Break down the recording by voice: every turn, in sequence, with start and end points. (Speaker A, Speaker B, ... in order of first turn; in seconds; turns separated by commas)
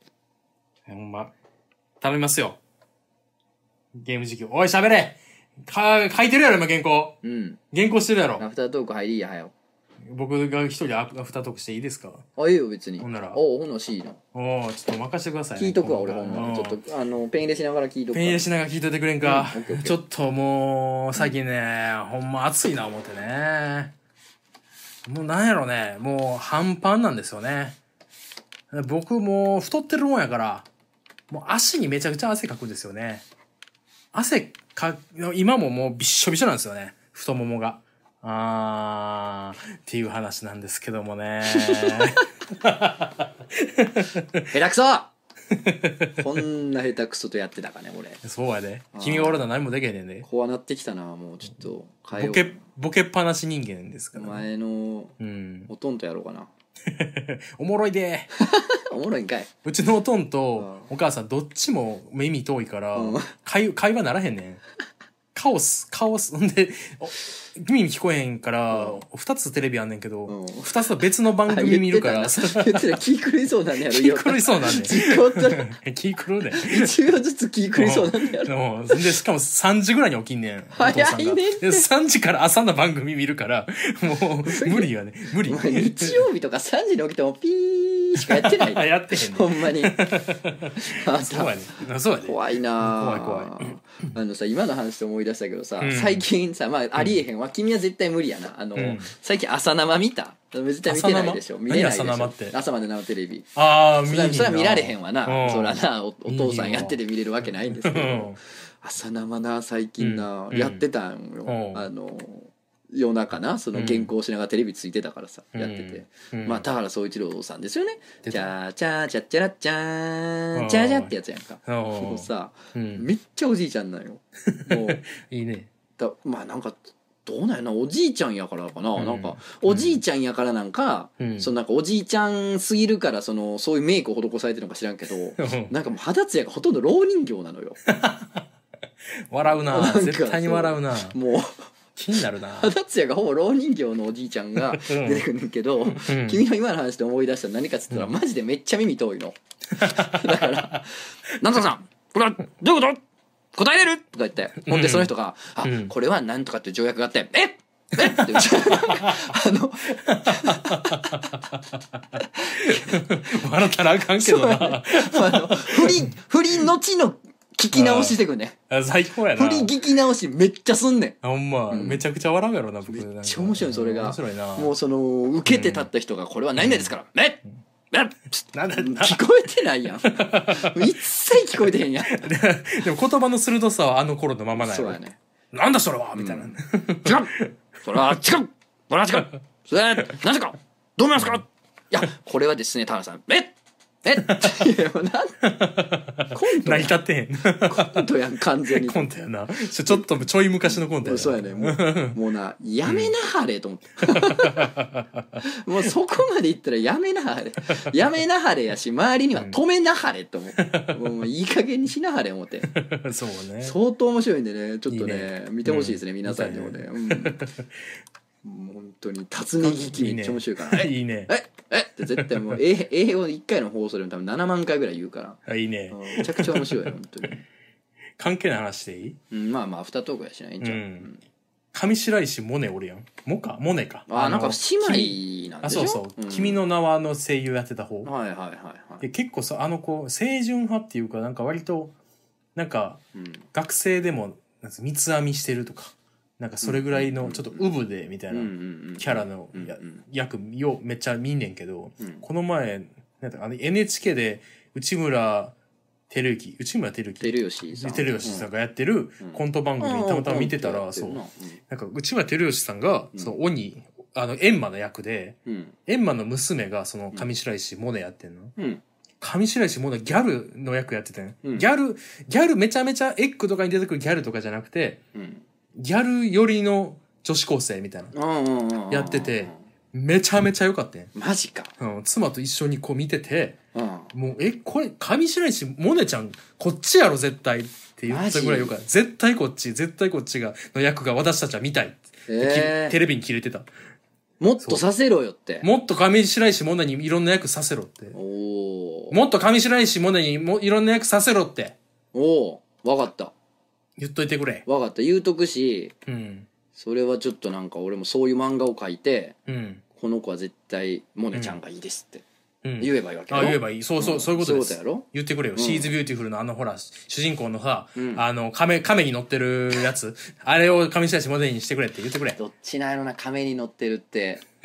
Speaker A: 0.9-1.3, Speaker A: 2.0-2.6, Speaker A: 4.0-7.2, Speaker B: 7.2-7.6, Speaker A: 7.7-8.4, Speaker B: 8.4-9.5, Speaker A: 10.0-12.2, Speaker B: 12.4-14.2, Speaker A: 13.0-13.4, Speaker A: 14.3-16.8, Speaker B: 15.5-18.5, Speaker A: 18.1-23.9, Speaker B: 19.2-20.0, Speaker A: 25.1-27.8, Speaker A: 28.7-30.7, Speaker A: 31.3-33.2, Speaker A: 34.1-44.5, Speaker B: 41.5-42.2, Speaker B: 44.5-45.1, Speaker A: 45.6-46.2, Speaker B: 46.2-48.2, Speaker A: 48.2-50.2, Speaker B: 48.9-49.4, Speaker B: 50.2-52.6, Speaker A: 52.1-54.5, Speaker B: 54.1-55.2, Speaker A: 55.2-55.7, Speaker B: 55.7-56.5, Speaker A: 56.9-58.3, Speaker B: 58.4-59.5, Speaker A: 59.6-64.6, Speaker B: 60.6-60.9, Speaker B: 62.9-63.3, Speaker A: 65.3-73.0, Speaker B: 68.7-69.0, Speaker B: 70.3-70.7, Speaker B: 71.5-75.7, Speaker A: 73.9-76.9, Speaker B: 76.5-79.0, Speaker A: 77.8-86.2, Speaker B: 80.7-81.9, Speaker B: 84.4-84.9, Speaker B: 85.4-90.0, Speaker A: 88.3-93.8, Speaker B: 90.8-91.5, Speaker B: 92.2-103.5, Speaker A: 95.8-96.3, Speaker A: 98.8-99.1, Speaker A: 100.8-102.5, Speaker A: 103.5-107.0, Speaker B: 104.0-125.0, Speaker A: 107.6-108.4, Speaker A: 110.0-110.8, Speaker A: 111.5-111.8, Speaker A: 113.7-114.1, Speaker A: 115.5-116.6, Speaker A: 120.5-121.1, Speaker A: 121.7-123.1, Speaker A: 124.5-125.7, Speaker B: 126.0-137.8, Speaker A: 128.9-130.0, Speaker A: 131.2-131.5, Speaker A: 135.4-135.7, Speaker A: 137.9-138.4, Speaker A: 139.3-141.2, Speaker B: 139.4-141.6, Speaker A: 142.0-142.7, Speaker B: 142.6-153.0, Speaker A: 144.7-145.2, Speaker A: 145.8-146.4, Speaker A: 149.8-150.8, Speaker B: 153.5-161.3, Speaker A: 154.7-155.1, Speaker A: 155.6-155.9, Speaker A: 158.0-159.2, Speaker A: 160.0-161.6, Speaker A: 162.2-166.1, Speaker B: 162.2-163.0, Speaker B: 164.2-168.6, Speaker A: 167.7-168.2, Speaker A: 168.7-169.7, Speaker B: 169.3-171.2, Speaker A: 171.2-174.7, Speaker B: 171.7-172.0, Speaker B: 172.9-182.3, Speaker A: 175.4-175.9, Speaker A: 176.6-176.9, Speaker A: 178.5-179.2, Speaker A: 180.0-180.8, Speaker A: 182.0-185.0, Speaker B: 184.5-185.2, Speaker A: 185.5-187.5, Speaker B: 186.1-195.4, Speaker A: 195.4-198.1, Speaker B: 196.3-196.9, Speaker B: 197.6-199.0, Speaker A: 198.7-202.2, Speaker B: 200.7-204.7, Speaker A: 202.8-203.1, Speaker A: 204.1-205.4, Speaker B: 205.4-212.7, Speaker A: 210.7-210.9, Speaker A: 212.7-213.7, Speaker B: 213.6-217.4, Speaker A: 214.9-217.7, Speaker B: 218.4-227.4, Speaker A: 219.6-221.3, Speaker A: 222.1-222.6, Speaker A: 225.4-226.9, Speaker A: 228.2-229.2, Speaker B: 229.3-231.2, Speaker A: 230.6-231.1, Speaker A: 231.7-238.1, Speaker B: 234.1-236.6, Speaker B: 238.0-239.1, Speaker A: 239.0-241.9, Speaker A: 242.6-243.0, Speaker B: 243.1-243.4, Speaker A: 243.5-255.5, Speaker B: 246.6-247.7, Speaker B: 248.3-250.0, Speaker B: 252.0-252.2, Speaker A: 256.1-268.5, Speaker B: 257.2-258.5, Speaker B: 259.2-261.6, Speaker B: 263.1-263.4, Speaker B: 265.4-265.8, Speaker B: 268.6-268.8, Speaker A: 269.2-275.0, Speaker B: 275.1-275.4, Speaker A: 275.8-278.1, Speaker B: 278.1-279.6, Speaker A: 278.9-281.1, Speaker B: 281.1-281.7, Speaker A: 281.8-283.6, Speaker B: 283.7-284.1, Speaker A: 284.1-293.7, Speaker B: 288.1-288.7, Speaker B: 292.3-293.0, Speaker B: 294.4-295.7, Speaker A: 295.6-298.1, Speaker B: 298.1-299.2, Speaker A: 299.1-301.8, Speaker B: 302.1-303.3, Speaker A: 304.0-304.6, Speaker B: 304.6-305.9, Speaker A: 306.1-306.5, Speaker B: 306.7-309.4, Speaker A: 309.5-309.8, Speaker B: 309.9-312.2, Speaker A: 311.3-311.6, Speaker A: 312.6-322.4, Speaker B: 312.8-315.9, Speaker B: 317.9-318.2, Speaker B: 322.4-324.4